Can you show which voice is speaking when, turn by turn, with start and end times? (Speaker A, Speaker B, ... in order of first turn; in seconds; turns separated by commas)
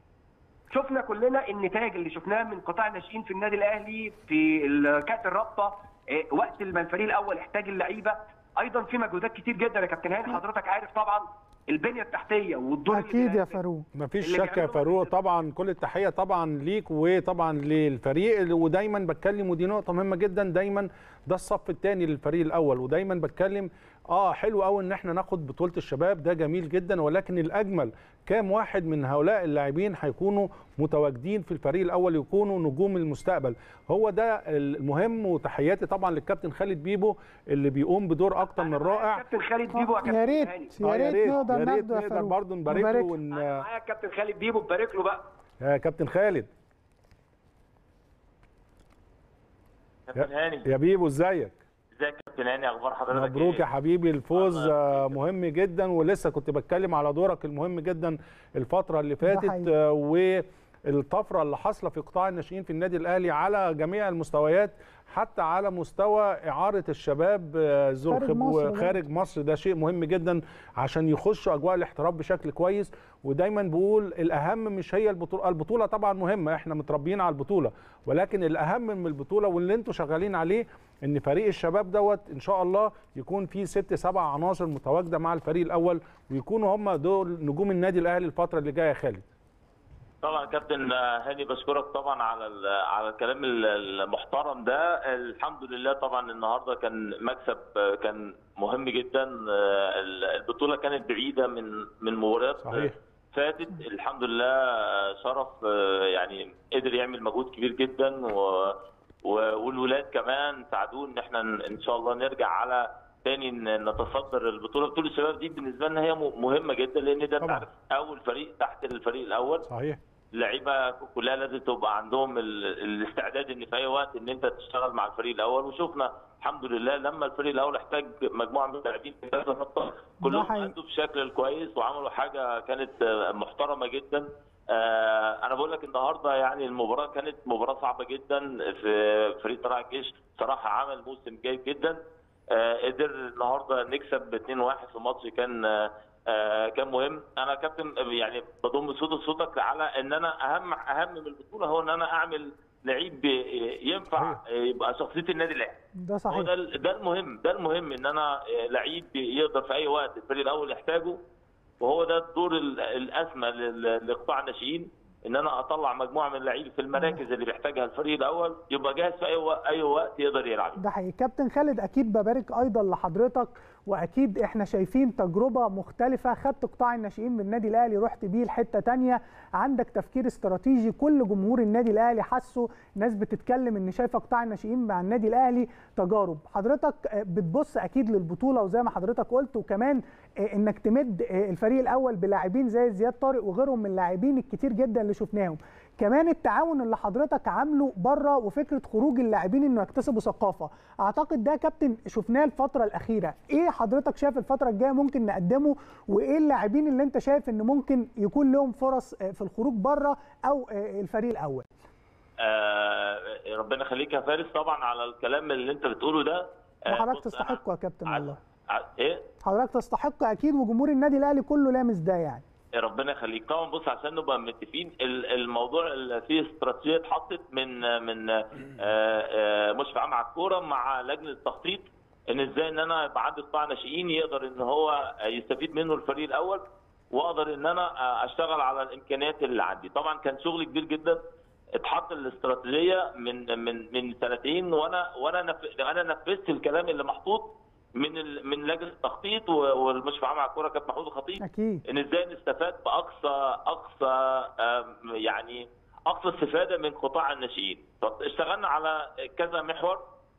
Speaker A: 0.7-13.6, Speaker B: 12.9-13.8, Speaker C: 13.9-39.2, Speaker A: 14.2-15.1, Speaker A: 38.5-40.8, Speaker B: 39.8-43.1, Speaker C: 40.8-43.6, Speaker A: 43.3-45.2, Speaker C: 45.6-46.5, Speaker D: 50.1-50.7, Speaker C: 50.1-51.5, Speaker D: 52.0-53.6, Speaker C: 53.1-89.2, Speaker D: 54.3-55.1, Speaker B: 59.2-59.7, Speaker B: 68.1-69.0, Speaker D: 90.2-119.7, Speaker C: 102.6-103.0, Speaker C: 119.7-120.0, Speaker D: 120.3-155.8, Speaker B: 130.2-130.7, Speaker B: 156.0-156.5, Speaker D: 156.3-161.2, Speaker D: 161.8-170.8, Speaker B: 166.9-167.2, Speaker B: 170.8-211.7, Speaker D: 212.4-219.2, Speaker B: 216.9-218.4, Speaker B: 219.4-222.4, Speaker D: 222.7-241.2, Speaker D: 241.7-260.0, Speaker B: 251.4-251.8